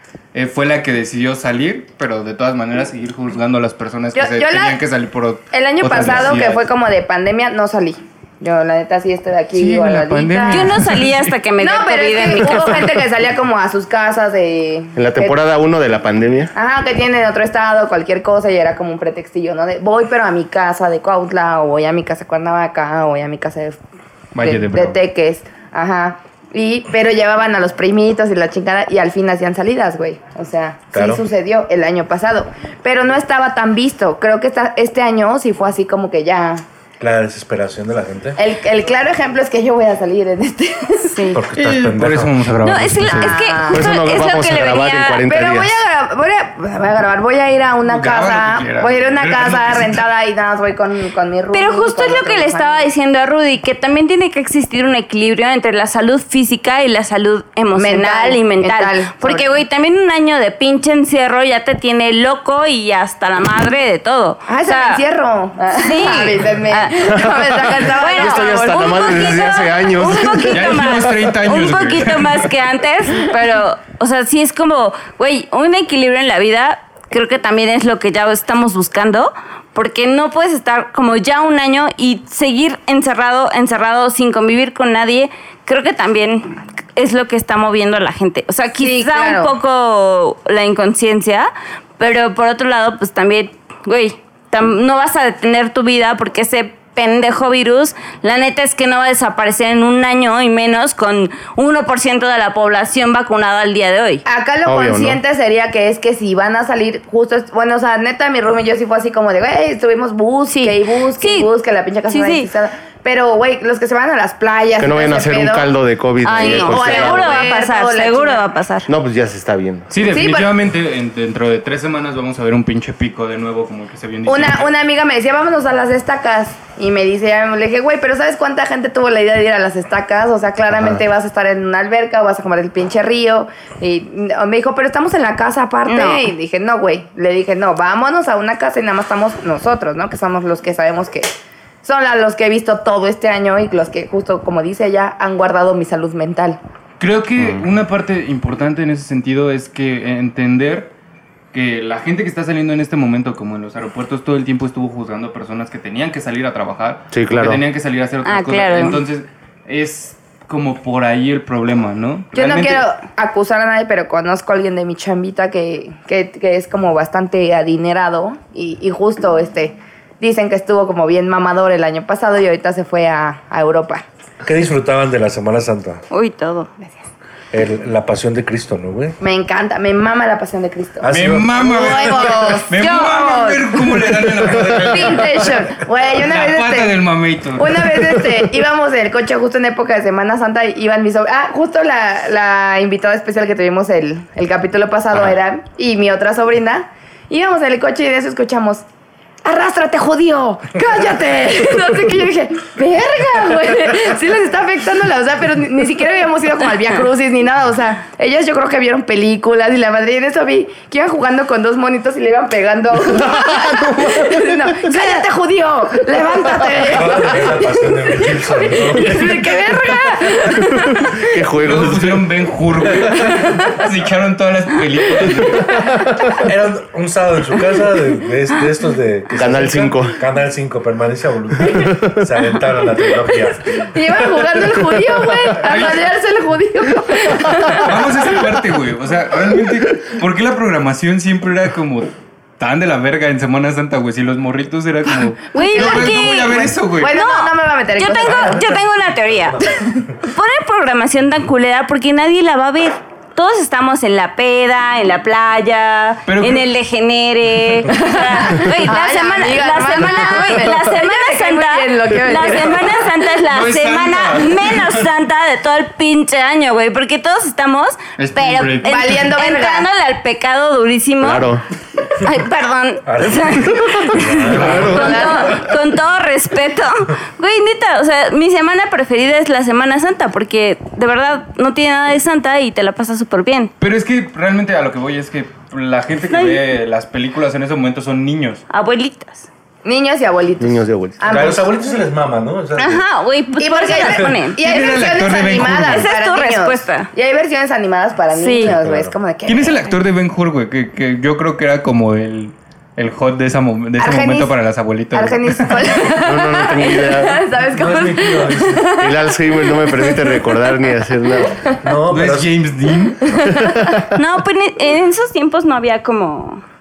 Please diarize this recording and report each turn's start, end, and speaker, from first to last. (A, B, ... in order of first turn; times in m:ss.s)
0:00.3-0:06.6 A
0:04.1-0:04.8 B
0:05.5-0:10.7 B
0:09.5-0:11.3 A
0:10.5-0:12.9 C
0:11.6-0:15.4 B
0:14.9-0:16.5 D
0:16.5-0:23.8 B
0:24.3-0:25.0 A
0:24.4-0:36.6 B
0:30.9-0:31.3 E
0:37.0-0:38.4 E
0:38.4-0:41.4 B
0:41.1-0:41.4 C
0:41.3-0:42.4 E
0:41.5-0:43.4 A
0:42.6-0:45.3 C
0:43.1-0:43.9 B
0:43.6-0:45.8 D
0:45.3-0:52.9 B
0:47.8-0:50.0 A
0:51.5-1:05.0 C
0:57.8-0:59.5 B
1:04.5-1:09.3 B
1:05.7-1:44.2 C
1:07.9-1:10.9 D
1:10.5-1:12.5 A
1:28.8-1:29.5 B
1:44.2-1:55.7 B
1:44.6-1:45.2 D
1:50.5-1:51.5 C
1:52.1-1:52.5 C
1:54.8-1:57.5 D
1:56.2-1:58.9 C
1:56.3-1:58.4 B
1:58.9-1:59.9 D
1:59.9-2:04.7 A
2:00.0-2:00.5 B
2:04.3-2:21.3 B
2:15.8-2:16.3 C
2:21.8-2:26.6 B
2:27.0-2:30.9 A
2:27.4-2:27.6 D
2:31.5-2:42.8 A
2:37.1-2:37.6 D
2:38.2-2:39.0 C
2:42.3-2:54.0 B
2:54.4-2:56.0 E
2:56.1-2:56.7 C
2:57.5-2:59.2 E
2:59.2-3:03.8 B
3:01.0-3:01.7 E
3:01.1-3:08.2 A
3:04.9-3:07.0 B
3:07.6-3:18.8 B
3:19.4-3:41.4 B
3:33.3-3:34.4 D
3:36.8-3:39.8 E
3:41.2-3:42.2 D
3:41.6-3:45.8 A
3:43.3-3:43.6 B
3:46.4-3:54.6 E
3:49.4-3:50.2 D
3:51.7-3:52.2 D
3:53.8-3:58.3 B
3:55.6-3:56.1 A
3:57.7-4:07.1 A
4:05.5-4:43.7 C
4:05.6-4:08.7 B
4:09.4-4:10.0 E
4:16.3-4:16.7 A
4:17.9-4:23.1 B
4:23.5-4:25.0 A
4:28.2-4:29.3 A
4:28.8-4:29.9 B
4:31.2-4:31.6 D
4:33.0-4:35.2 E
4:34.5-4:35.2 D
4:34.8-4:35.6 B
4:43.8-4:48.6 A
4:46.3-4:46.6 C
4:48.7-4:49.5 C
4:49.8-4:51.7 B
4:50.6-4:51.5 D
4:51.2-4:53.0 E
4:52.8-4:54.6 C
4:53.6-5:00.0 B
4:54.0-4:54.3 E
4:54.6-4:56.1 A
4:55.8-4:57.1 C
4:58.3-4:58.7 C
4:58.6-4:59.2 E
4:59.4-5:06.0 A
5:04.0-5:04.5 B
5:05.1-5:10.7 B
5:06.2-5:07.4 D
5:07.7-5:08.9 E
5:09.0-5:11.6 D
5:11.8-5:12.5 E
5:12.1-5:13.2 A
5:13.2-5:14.0 B
5:13.4-5:14.0 D
5:14.1-5:16.6 C